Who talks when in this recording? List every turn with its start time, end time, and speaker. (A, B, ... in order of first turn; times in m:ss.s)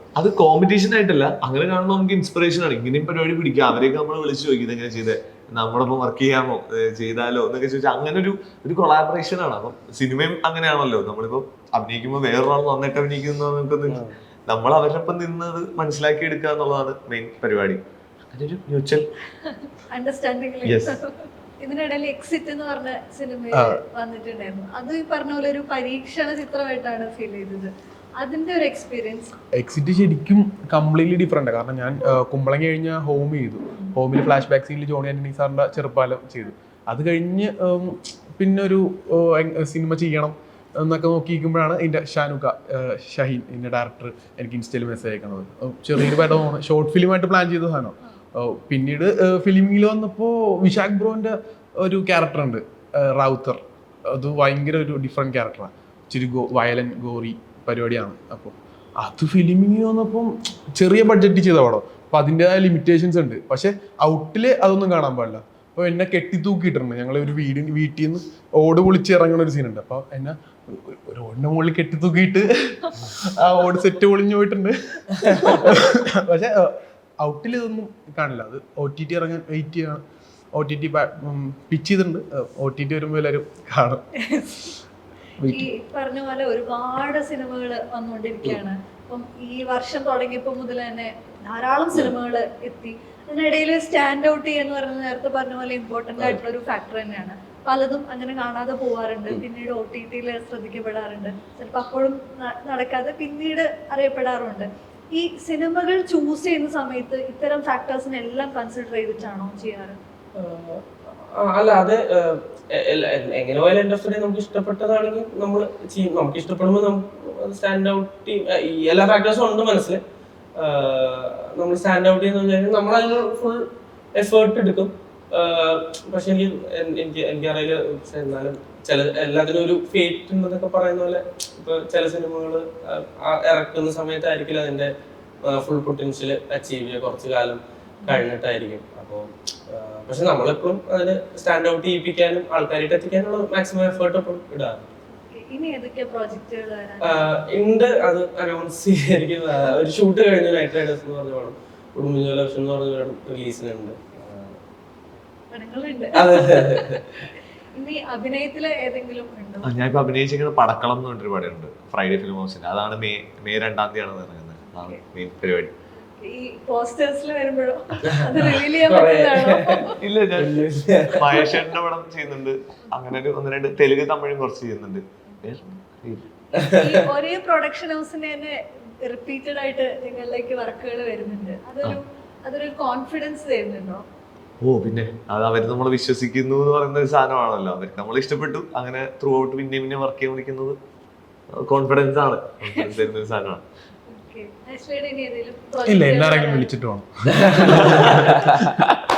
0:00.2-0:19.1 A
0:13.9-0:14.2 B
0:19.4-0:29.3 C
0:20.6-0:21.0 A
0:23.5-0:23.8 D
0:29.5-1:24.0 D
1:24.2-1:24.7 C
1:25.4-1:25.7 D
1:25.4-1:50.0 C
1:50.4-2:00.0 B
2:00.6-2:14.9 B
2:15.4-2:24.8 B
2:25.2-2:27.2 C
2:27.0-2:34.6 B
2:35.5-2:37.2 C
2:36.1-2:37.3 B
2:37.7-2:39.7 C
2:39.6-2:45.7 A
2:46.0-2:50.0 C
2:48.0-2:51.4 B
2:50.0-2:56.3 A
2:56.5-2:57.0 B
2:56.7-3:04.0 C
3:04.6-3:10.8 A
3:11.5-3:13.6 A
3:12.7-3:13.0 C
3:14.1-3:16.7 C
3:15.8-3:18.9 D
3:17.3-3:18.8 B
3:17.9-3:18.3 C